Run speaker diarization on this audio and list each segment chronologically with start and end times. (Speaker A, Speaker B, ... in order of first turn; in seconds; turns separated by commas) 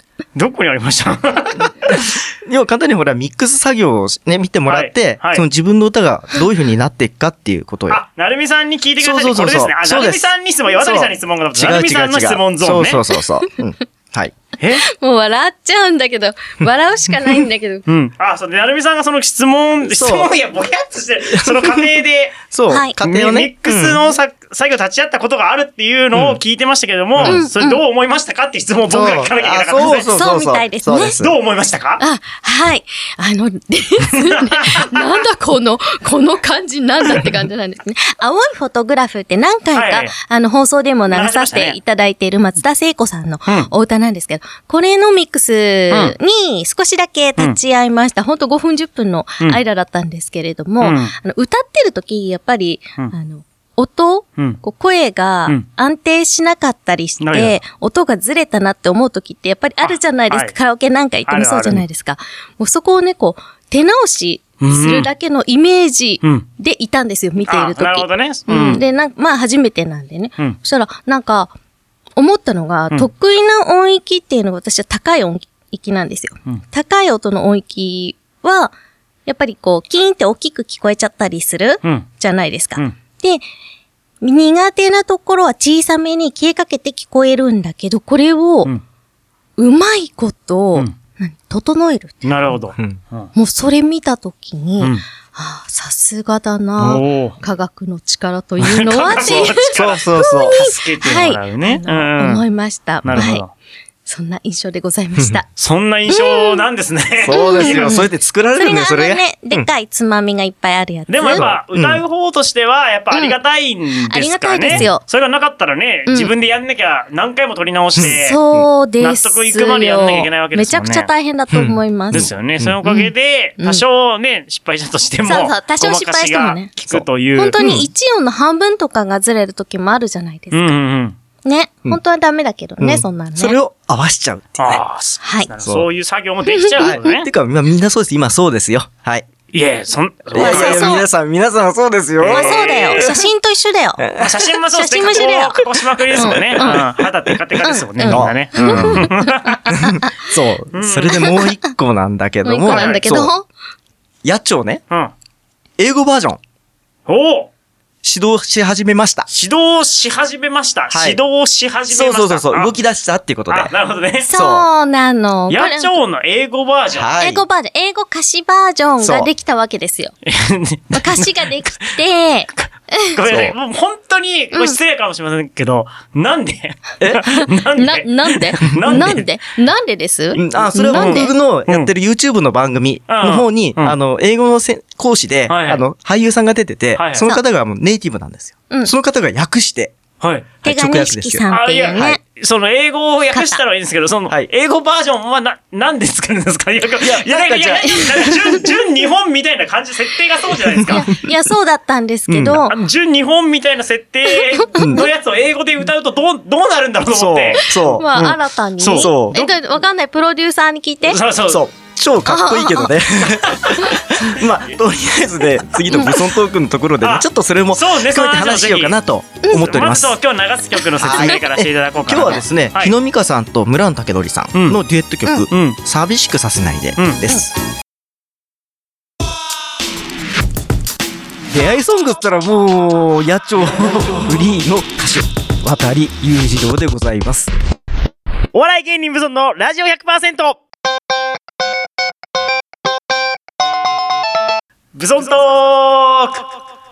Speaker A: 0.3-2.1, Speaker B: 1.9-8.0, Speaker A: 4.7-5.5, Speaker A: 7.9-13.0, Speaker B: 9.0-14.3, Speaker A: 14.6-14.8, Speaker C: 14.8-17.9, Speaker A: 17.9-22.4, Speaker B: 19.9-20.3, Speaker B: 21.3-21.9, Speaker B: 22.5-24.0, Speaker C: 22.7-23.0, Speaker A: 23.0-30.1, Speaker B: 26.1-26.4, Speaker B: 27.2-27.4, Speaker C: 27.2-27.8, Speaker B: 28.9-31.3, Speaker C: 29.8-31.2, Speaker A: 31.2-32.0, Speaker C: 32.0-71.5, Speaker A: 34.2-35.1, Speaker A: 39.7-40.1, Speaker A: 41.1-41.8, Speaker A: 50.8-51.1, Speaker A: 57.2-57.6, Speaker A: 59.8-60.5, Speaker A: 61.3-61.9, Speaker A: 64.6-65.1, Speaker A: 67.5-68.8, Speaker C: 72.2-78.7, Speaker C: 79.3-83.4, Speaker C: 84.2-88.7, Speaker C: 89.6-92.2, Speaker A: 92.2-93.3, Speaker C: 93.3-103.4, Speaker A: 96.8-97.4, Speaker A: 98.6-102.4, Speaker B: 99.2-100.6, Speaker A: 103.0-103.5, Speaker C: 104.1-105.5, Speaker A: 105.6-108.0, Speaker C: 106.1-106.7, Speaker B: 107.2-109.7, Speaker C: 107.3-111.5, Speaker A: 111.1-118.4, Speaker B: 111.3-112.0, Speaker C: 114.1-115.0, Speaker B: 118.0-118.7, Speaker C: 118.2-122.3, Speaker A: 119.0-121.1, Speaker B: 121.5-122.8, Speaker A: 122.1-127.8, Speaker C: 122.8-123.8, Speaker C: 125.2-126.7, Speaker C: 127.3-130.8, Speaker B: 127.6-127.9, Speaker A: 130.5-131.2, Speaker C: 131.4-133.6, Speaker B: 132.8-134.8, Speaker A: 134.6-137.3, Speaker C: 135.2-135.5, Speaker C: 136.5-137.2, Speaker B: 136.8-139.2, Speaker A: 139.5-141.0, Speaker B: 140.3-143.1, Speaker C: 140.3-141.1, Speaker A: 142.2-143.2, Speaker C: 142.3-144.1, Speaker B: 144.0-144.4, Speaker A: 144.2-149.9, Speaker C: 144.7-146.9, Speaker B: 146.1-146.8, Speaker C: 147.6-150.3, Speaker B: 148.1-149.1, Speaker B: 149.7-153.3, Speaker A: 150.7-151.3, Speaker C: 151.2-151.5, Speaker C: 152.4-153.5, Speaker A: 152.7-153.0, Speaker B: 154.2-154.8, Speaker B: 155.8-156.4, Speaker A: 157.1-157.5, Speaker B: 158.0-159.3, Speaker A: 159.3-162.7, Speaker B: 160.9-161.2, Speaker B: 161.9-163.7, Speaker A: 163.5-164.3, Speaker C: 164.3-166.0, Speaker B: 164.3-164.7, Speaker A: 165.5-167.1, Speaker B: 166.9-167.4, Speaker C: 167.2-170.2, Speaker B: 169.0-169.3, Speaker A: 170.3-172.0, Speaker C: 170.9-173.2, Speaker A: 172.5-179.3, Speaker B: 173.3-173.5, Speaker C: 177.4-181.3, Speaker B: 178.8-179.2, Speaker B: 180.3-189.9, Speaker A: 180.9-181.9, Speaker A: 183.1-184.0, Speaker A: 185.5-185.8, Speaker A: 186.9-187.3, Speaker A: 190.2-190.5, Speaker B: 190.6-192.2, Speaker C: 190.6-192.2, Speaker A: 191.5-201.1, Speaker C: 193.3-193.6, Speaker B: 197.0-198.6, Speaker C: 200.9-202.8, Speaker B: 202.3-202.7, Speaker A: 202.7-209.6, Speaker C: 204.5-205.0, Speaker B: 204.8-205.1, Speaker B: 207.1-208.1, Speaker C: 207.7-211.2, Speaker B: 208.9-209.4, Speaker A: 211.1-211.6, Speaker B: 211.5-220.2, Speaker C: 212.3-213.0, Speaker A: 213.5-213.9, Speaker C: 213.8-214.4, Speaker C: 215.9-216.3, Speaker A: 217.0-219.0, Speaker A: 219.5-222.9, Speaker B: 221.0-227.5, Speaker A: 224.5-224.8, Speaker A: 225.5-225.8, Speaker A: 227.0-227.2, Speaker B: 231.5-237.5, Speaker A: 238.5-240.6, Speaker A: 244.9-246.5